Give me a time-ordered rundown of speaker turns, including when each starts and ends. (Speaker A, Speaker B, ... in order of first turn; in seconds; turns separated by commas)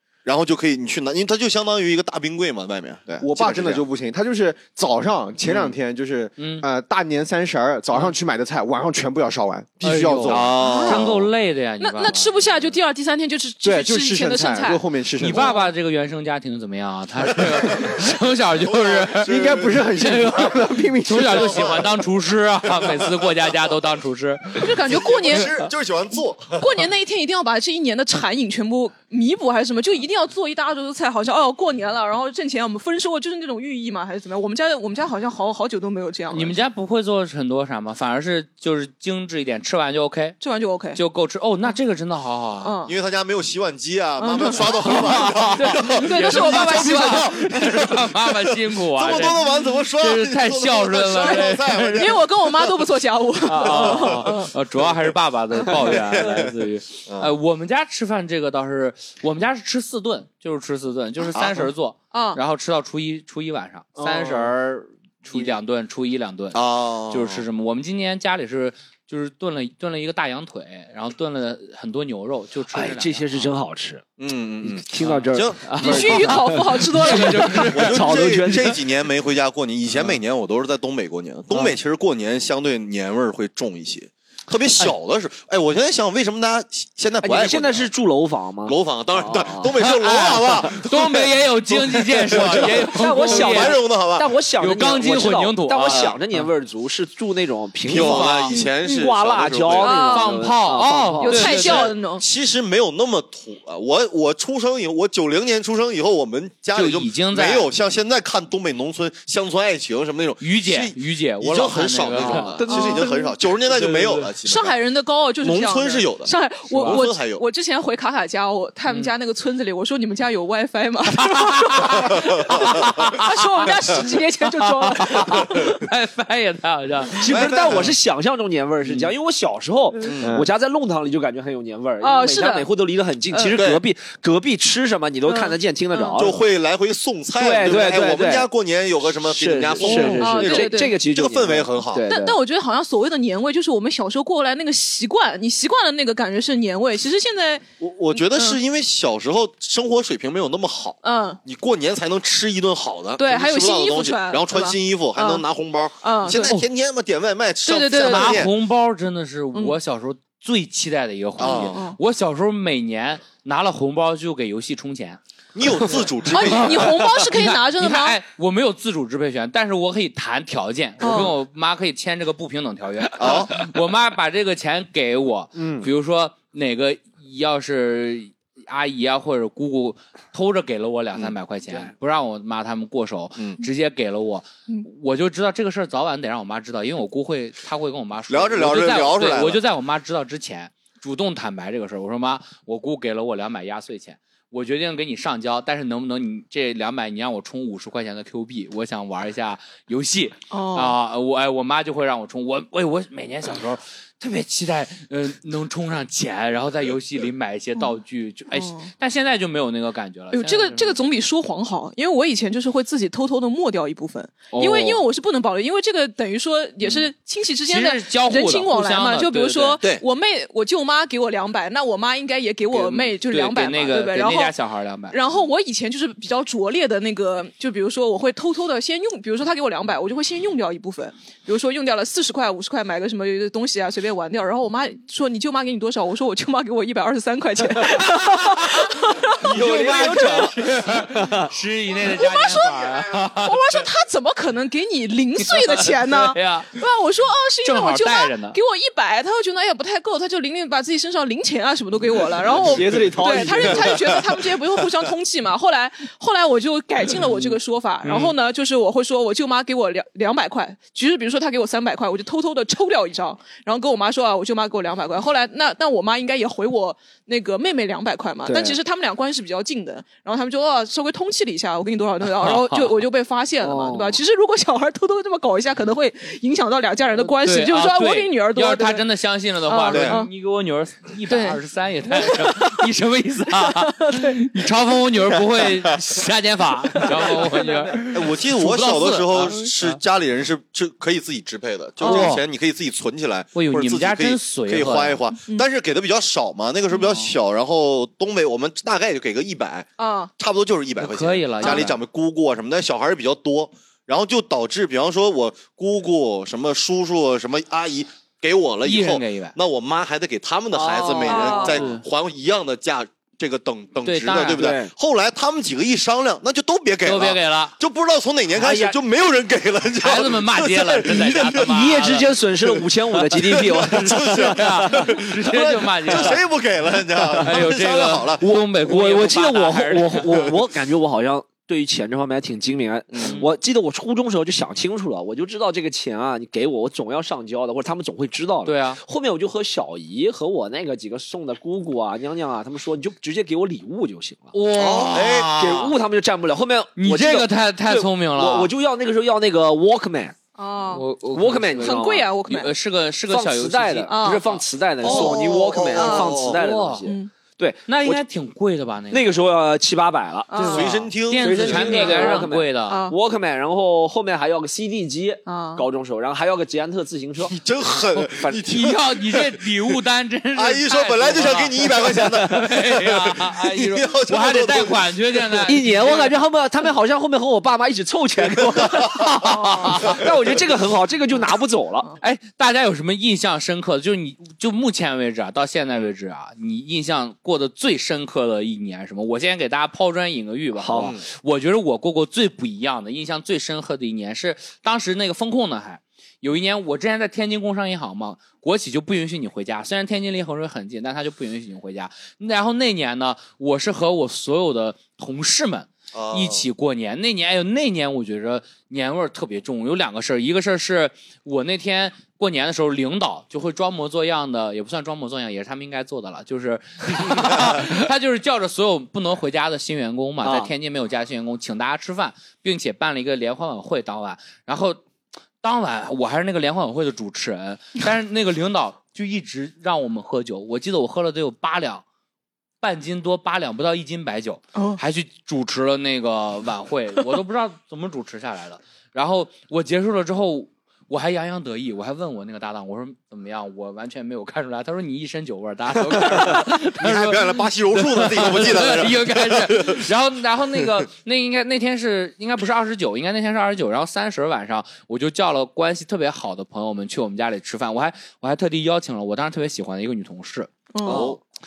Speaker A: 0.2-3.8, Speaker B: 3.2-10.8, Speaker A: 5.5-5.7, Speaker C: 6.4-6.7, Speaker C: 9.8-12.4, Speaker A: 10.2-11.2, Speaker D: 10.6-11.1, Speaker D: 11.8-15.7, Speaker B: 13.6-15.5, Speaker C: 15.2-24.8, Speaker A: 17.8-19.8, Speaker B: 19.2-21.8, Speaker A: 21.2-22.0, Speaker A: 22.7-23.2, Speaker D: 24.6-25.6, Speaker A: 24.8-26.8, Speaker D: 26.6-36.6, Speaker C: 36.3-40.4, Speaker D: 40.4-41.0, Speaker C: 40.9-42.7, Speaker D: 42.6-42.9, Speaker A: 42.9-52.8, Speaker D: 44.2-47.4, Speaker C: 44.7-52.2, Speaker D: 51.2-54.5, Speaker C: 53.4-73.5, Speaker A: 53.6-55.0, Speaker A: 55.6-56.5, Speaker A: 57.1-57.3, Speaker A: 61.3-61.7, Speaker D: 62.1-62.4, Speaker B: 64.0-64.5, Speaker A: 66.5-67.5, Speaker E: 72.7-74.0, Speaker A: 74.2-76.3, Speaker E: 74.6-78.8, Speaker C: 75.0-78.6, Speaker D: 75.8-77.7, Speaker A: 77.7-87.9, Speaker E: 87.2-89.8, Speaker A: 88.6-94.3, Speaker C: 89.8-93.8, Speaker E: 92.5-101.6, Speaker C: 94.6-96.5, Speaker A: 95.9-96.2, Speaker A: 97.8-100.0, Speaker C: 97.9-98.6, Speaker D: 99.8-100.4, Speaker C: 100.0-101.9, Speaker D: 101.2-102.2, Speaker A: 101.3-114.7, Speaker C: 106.7-107.7, Speaker C: 110.4-112.6, Speaker E: 112.2-112.8, Speaker D: 112.6-113.4, Speaker C: 113.7-114.2, Speaker D: 114.4-125.8, Speaker A: 115.4-117.4, Speaker C: 116.7-117.0, Speaker C: 121.1-127.7, Speaker A: 122.4-122.8, Speaker E: 127.2-136.4, Speaker A: 127.2-127.9, Speaker A: 130.0-130.4, Speaker B: 130.2-130.5, Speaker D: 132.0-132.7, Speaker D: 133.3-133.6, Speaker A: 133.5-133.8, Speaker D: 135.2-136.2, Speaker A: 136.2-142.1, Speaker E: 137.3-138.5, Speaker E: 139.0-142.4, Speaker D: 139.8-141.0, Speaker C: 139.9-140.2, Speaker D: 142.0-148.6, Speaker A: 147.8-158.5, Speaker D: 151.0-151.4, Speaker D: 153.2-155.4, Speaker D: 156.0-156.5, Speaker D: 157.6-158.5, Speaker C: 157.9-165.2, Speaker A: 161.4-161.8, Speaker D: 161.4-162.0, Speaker A: 165.5-167.0, Speaker C: 165.8-211.0, Speaker D: 166.3-168.2, Speaker D: 171.0-171.3, Speaker A: 173.2-173.7, Speaker B: 175.6-175.9, Speaker A: 188.3-189.6, Speaker D: 200.5-200.9, Speaker D: 208.5-208.9, Speaker D: 210.3-224.5, Speaker C: 214.5-215.0, Speaker C: 217.7-219.8, Speaker C: 222.7-225.2, Speaker D: 225.1-240.5, Speaker C: 238.0-243.9, Speaker E: 239.4-241.5, Speaker D: 241.9-279.0, Speaker C: 245.4-246.8, Speaker C: 247.6-248.6, Speaker E: 252.6-254.2, Speaker A: 253.9-254.3, Speaker C: 258.0-258.3, Speaker E: 268.4-268.8, Speaker C: 272.4-272.9, Speaker E: 273.6-274.2, Speaker C: 277.3-290.0, Speaker D: 279.7-280.3, Speaker A: 279.9-280.2, Speaker D: 281.3-282.9, Speaker D: 283.5-284.5, Speaker D: 286.9-288.0, Speaker A: 288.1-321.9, Speaker D: 292.0-292.3, Speaker C: 292.0-292.4, Speaker C: 293.5-295.2, Speaker C: 297.0-297.3, Speaker D: 300.0-300.3, Speaker C: 301.0-302.0, Speaker D: 301.6-301.9, Speaker C: 308.8-309.6, Speaker E: 310.7-311.9, Speaker D: 311.2-311.8, Speaker C: 311.5-312.0, Speaker C: 314.0-314.7, Speaker E: 314.6-314.9, Speaker C: 317.0-317.8, Speaker E: 318.6-318.9, Speaker C: 320.0-322.4, Speaker E: 321.1-325.2, Speaker A: 322.7-328.4, Speaker C: 323.1-326.4, Speaker E: 326.1-326.4, Speaker E: 327.2-327.6, Speaker C: 327.4-330.5, Speaker E: 328.4-344.5, Speaker C: 333.2-333.5, Speaker C: 338.6-339.0, Speaker C: 344.5-345.9, Speaker A: 344.7-345.5, Speaker E: 345.5-350.4, Speaker C: 346.9-348.7, Speaker D: 350.6-351.0, Speaker C: 350.9-354.6, Speaker E: 351.3-352.4, Speaker D: 351.8-352.7, Speaker E: 353.3-358.2, Speaker D: 354.1-354.5, Speaker D: 355.0-356.5, Speaker A: 355.0-356.6, Speaker C: 356.4-357.1, Speaker D: 357.0-357.3, Speaker C: 357.9-359.4, Speaker E: 359.1-360.6, Speaker D: 360.5-361.0, Speaker C: 360.5-363.1, Speaker A: 360.6-362.1, Speaker E: 361.3-367.6, Speaker D: 361.7-363.1, Speaker D: 365.4-365.9, Speaker A: 367.4-369.6, Speaker E: 368.2-368.7, Speaker C: 368.7-376.4, Speaker A: 370.5-375.7, Speaker E: 375.7-382.1, Speaker A: 378.8-379.3, Speaker C: 379.2-380.3, Speaker D: 379.5-380.0, Speaker C: 382.2-425.0, Speaker E: 390.8-391.1, Speaker A: 390.9-391.2, Speaker A: 406.1-406.6, Speaker E: 420.4-420.7, Speaker C: 425.6-432.0, Speaker C: 432.8-461.3, Speaker D: 434.7-435.0, Speaker A: 446.4-450.1, Speaker D: 460.9-461.3, Speaker E: 461.1-461.4, Speaker A: 461.1-461.4